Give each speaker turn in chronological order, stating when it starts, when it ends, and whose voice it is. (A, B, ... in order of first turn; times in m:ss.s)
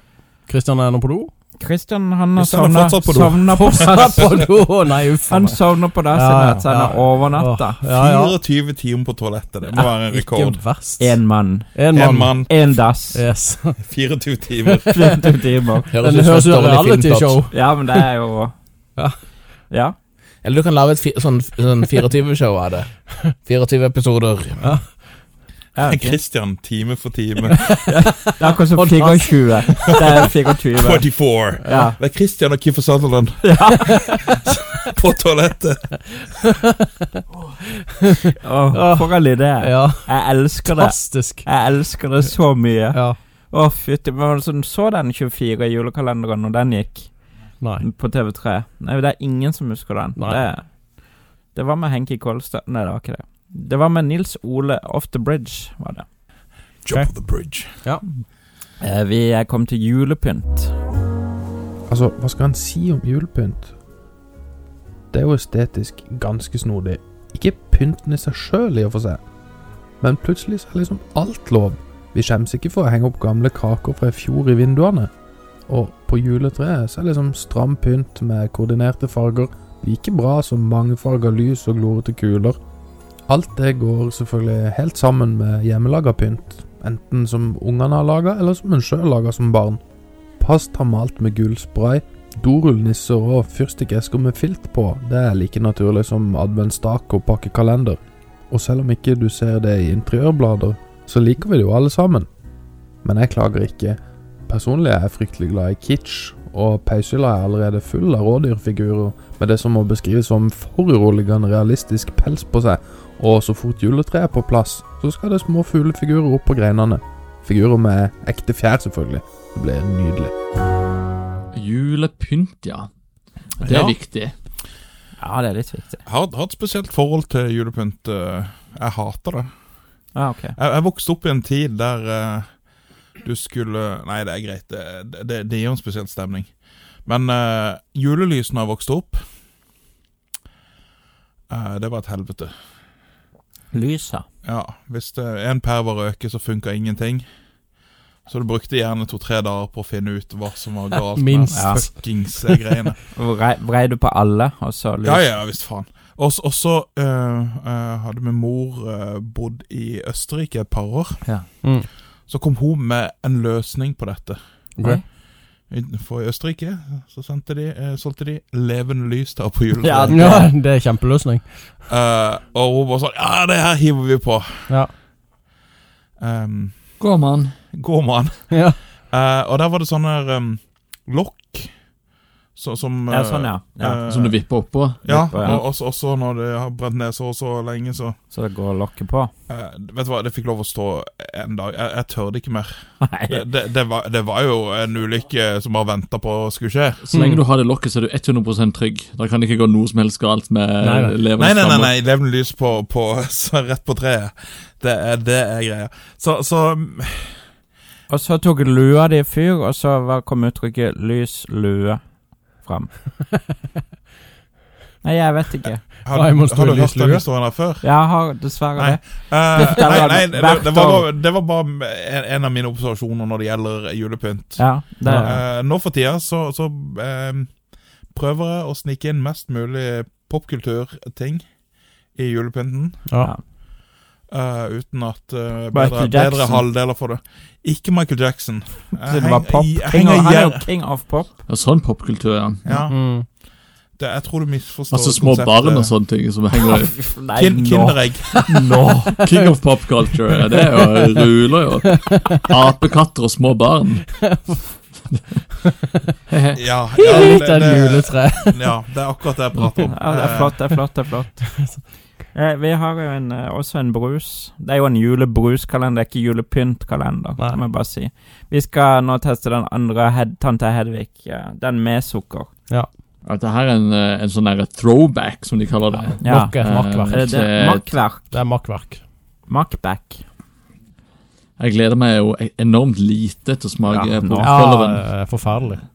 0:00.5-0:01.3 A
0:01.6-0:04.4 B
0:02.4-0:04.4 C
0:03.6-0:08.4 A
0:05.3-0:07.8 B
0:07.9-0:10.6 C
0:10.1-0:11.2 A
0:11.0-0:11.7 B
0:11.7-0:13.8 A
0:11.9-0:12.5 C
0:12.4-0:13.2 B
0:13.8-0:14.9 C
0:14.7-0:15.1 A
0:14.9-0:15.9 B
0:15.9-0:17.4 D
0:15.9-0:18.0 A
0:17.5-0:18.5 B
0:19.7-0:19.9 B
0:20.4-0:22.9 D
0:23.4-0:24.6 D
0:24.6-0:24.9 A
0:25.7-0:26.2 B
0:25.8-0:27.6 C
0:27.5-0:27.8 A
0:27.8-0:31.0 B
0:28.7-0:30.2 A
0:30.8-0:33.5 C
0:31.6-0:31.9 A
0:31.7-0:32.0 B
0:33.4-0:34.2 B
0:34.9-0:35.9 C
0:36.1-0:36.8 A
0:38.0-0:41.4 A
0:38.4-0:47.1 B
0:42.9-0:43.2 A
0:47.8-0:50.8 B
0:50.2-0:50.4 A
0:51.5-0:56.0 B
0:56.8-0:57.8 C
0:58.8-1:00.7 B
1:01.9-1:03.7 E
1:05.1-1:09.2 E
1:10.0-1:15.1 E
1:15.7-1:22.6 E
1:23.3-1:29.8 E
1:30.4-1:38.0 E
1:38.5-1:42.3 E
1:43.0-2:00.3 E
2:01.5-2:02.9 F
2:03.6-2:04.3 F
2:03.6-2:03.9 C
2:05.2-2:06.0 B
2:06.0-2:09.5 C
2:10.1-2:10.6 B
2:10.6-2:12.6 C
2:13.2-2:16.5 C
2:17.0-2:19.2 C
2:21.5-2:22.5 C
2:23.7-2:24.2 B
2:24.4-2:27.2 C
2:28.2-2:33.0 C
2:31.1-2:32.9 A
2:31.5-2:31.8 B
2:33.1-2:35.2 B
2:35.0-2:41.2 C
2:41.6-2:41.9 A
2:42.3-2:44.4 C
2:45.7-2:50.3 C
2:49.8-2:50.5 B
2:50.1-2:51.5 A
2:51.9-2:54.7 C
2:56.2-2:56.8 C
2:57.0-2:57.5 F
2:57.7-2:58.5 C
2:58.5-2:58.8 A
2:59.1-3:01.7 C
3:02.5-3:04.4 C
3:03.1-3:04.0 B
3:04.1-3:05.6 F
3:05.0-3:08.2 C
3:05.1-3:05.6 B
3:08.3-3:09.3 B
3:09.5-3:17.1 C
3:13.0-3:13.4 B
3:17.0-3:21.9 F
3:17.1-3:17.4 A
3:20.8-3:21.2 A
3:21.3-3:27.4 C
3:28.1-3:32.0 B
3:32.5-3:32.9 B
3:35.0-3:35.8 B
3:36.0-3:37.9 C
3:36.1-3:37.2 A
3:37.8-3:41.1 B
3:38.8-3:47.6 C
3:44.6-3:45.3 B
3:45.0-3:45.4 A
3:48.1-3:51.4 C
3:52.1-3:53.0 C
3:53.0-3:53.3 A
3:54.3-4:00.6 C
3:55.7-3:56.6 B
3:59.0-4:01.3 B
4:01.5-4:02.8 F
4:02.6-4:02.9 C
4:02.9-4:03.2 A
4:04.0-4:05.9 C
4:04.9-4:06.9 F
4:06.8-4:08.9 B
4:07.3-4:08.4 C
4:08.5-4:14.1 F
4:09.2-4:09.5 A
4:10.4-4:11.2 A
4:11.8-4:12.6 A
4:14.1-4:14.8 A
4:15.6-4:16.0 A
4:16.3-4:16.6 F
4:16.5-4:20.6 C
4:16.9-4:18.8 A
4:19.8-4:21.6 B
4:21.4-4:21.8 A
4:22.3-4:32.5 B
4:33.2-4:37.9 F
4:36.2-4:36.6 B
4:36.2-4:37.3 A
4:37.1-4:38.2 B
4:38.2-4:39.0 A
4:39.5-4:40.2 B
4:41.6-4:45.0 F
4:43.9-4:44.5 B
4:44.4-4:45.8 A